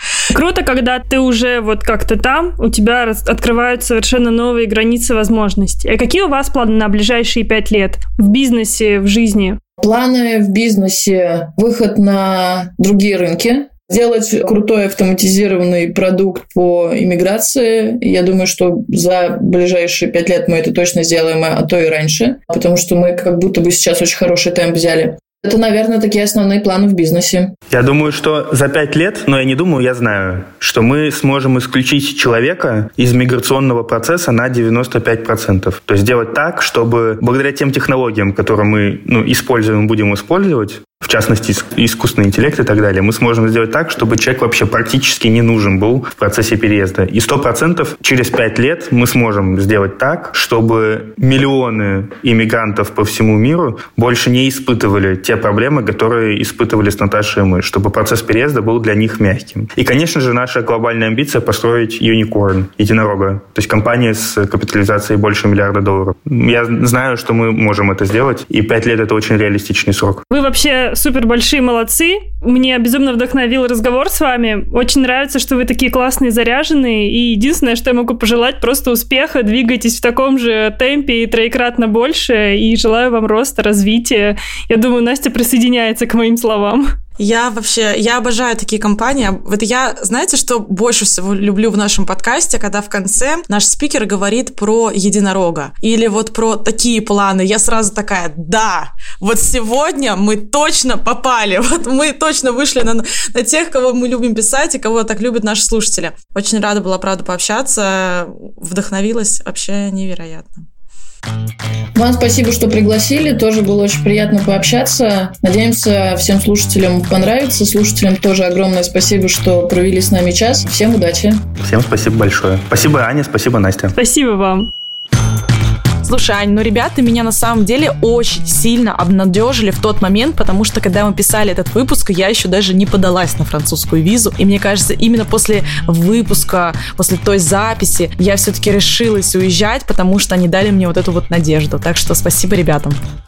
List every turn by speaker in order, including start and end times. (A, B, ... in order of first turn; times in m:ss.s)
0:00.3-0:09.6 A
0:09.8-0:27.5 B
0:27.7-1:10.2 C
1:10.3-1:26.9 A
1:27.2-1:50.7 D
1:52.0-2:01.4 B
2:01.6-2:03.9 C
2:03.9-2:04.7 A
2:06.0-2:23.0 D